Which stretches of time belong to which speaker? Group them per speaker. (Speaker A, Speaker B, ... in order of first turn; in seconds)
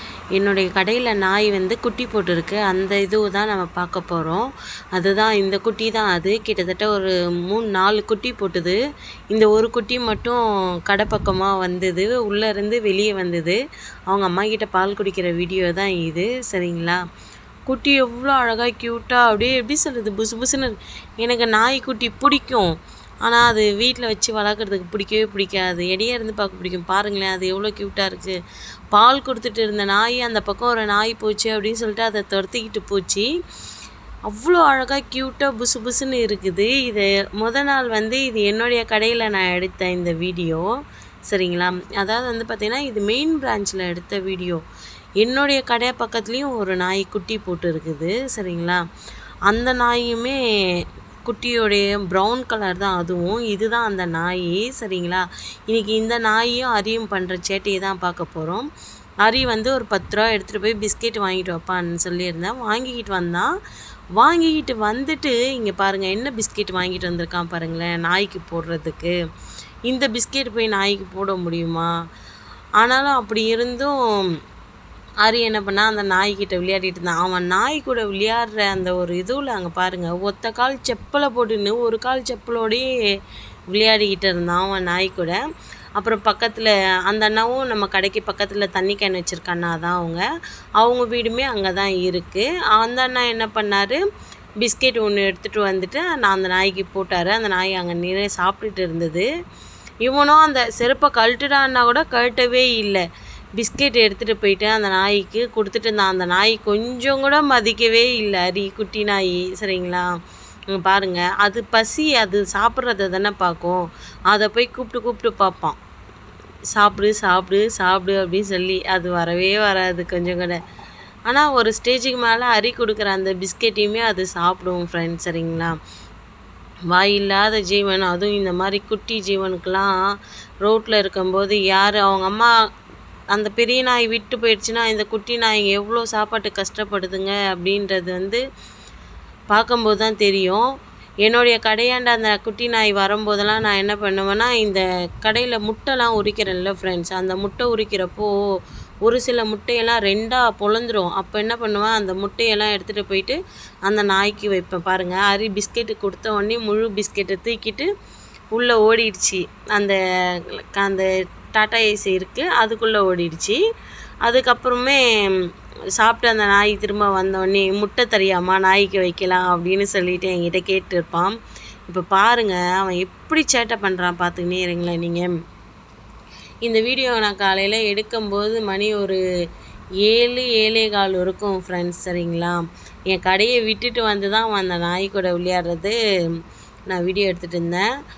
Speaker A: 0.3-8.8, 9.3-13.6, 14.1-17.0, 17.7-22.7, 23.2-28.4, 28.9-33.3, 34.3-40.7, 41.3-44.6, 45.2-48.8, 49.5-50.4, 51.3-58.6, 59.2-63.5, 64.2-69.2, 69.9-71.9, 72.8-74.0, 75.2-82.9, 83.7-85.4, 86.0-90.2, 90.8-94.0, 94.6-99.3, 100.0-103.0, 103.6-110.1, 110.7-115.8, 116.7-120.6, 121.3-125.8, 126.9-129.9, 130.6-132.5, 133.3-138.4, 139.5-140.6, 141.2-148.3, 149.0-157.9, 158.5-159.9, 160.6-163.6, 164.2-165.4, 166.0-171.3, 171.9-175.3, 176.6-179.2, 180.0-186.0, 186.9-187.9